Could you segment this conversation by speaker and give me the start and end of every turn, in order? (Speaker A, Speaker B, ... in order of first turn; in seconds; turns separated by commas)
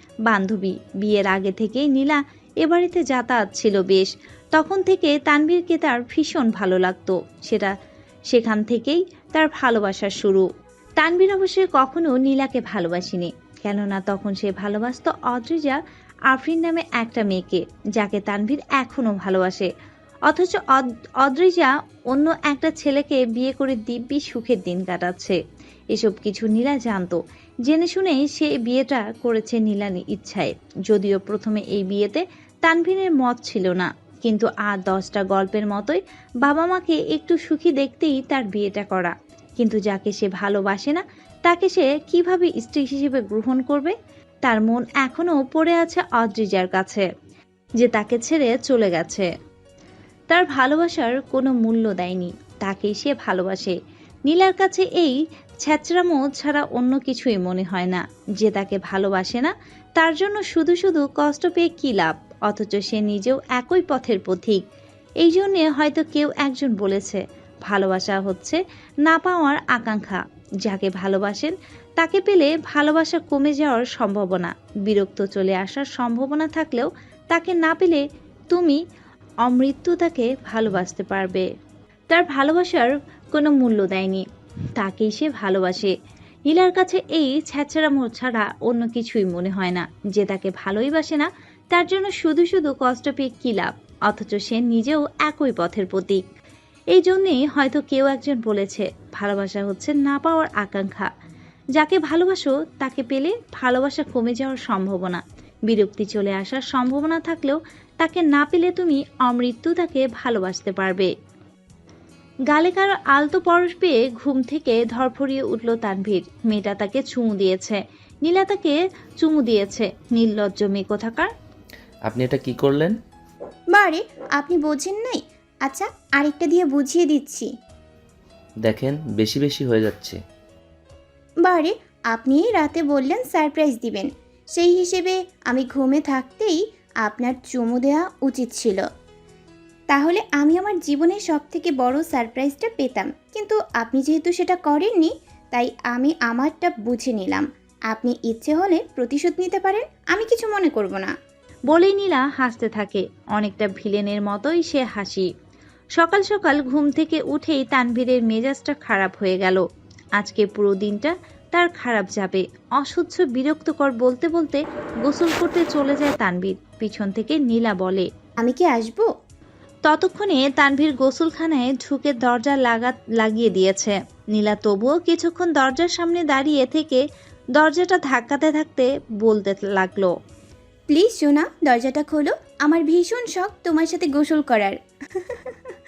Speaker A: 0.3-7.7, Speaker A: 8.3-19.7, Speaker A: 20.3-25.4, Speaker A: 25.9-47.1, Speaker A: 47.8-49.3, Speaker A: 50.3-53.8, Speaker A: 54.3-64.6, Speaker A: 65.2-78.8, Speaker A: 79.4-81.5, Speaker A: 82.1-84.2, Speaker A: 84.8-85.9, Speaker A: 86.5-96.2, Speaker A: 96.9-101.1, Speaker A: 101.8-111.1, Speaker A: 112.5-121.3, Speaker B: 122.1-123.0, Speaker C: 123.7-127.5, Speaker B: 128.6-130.2, Speaker C: 131.4-138.8, Speaker C: 139.9-151.1, Speaker A: 151.7-155.3, Speaker A: 155.9-159.6, Speaker A: 160.2-168.1, Speaker C: 168.4-169.1, Speaker A: 169.9-177.0, Speaker A: 177.6-180.1, Speaker C: 180.9-184.8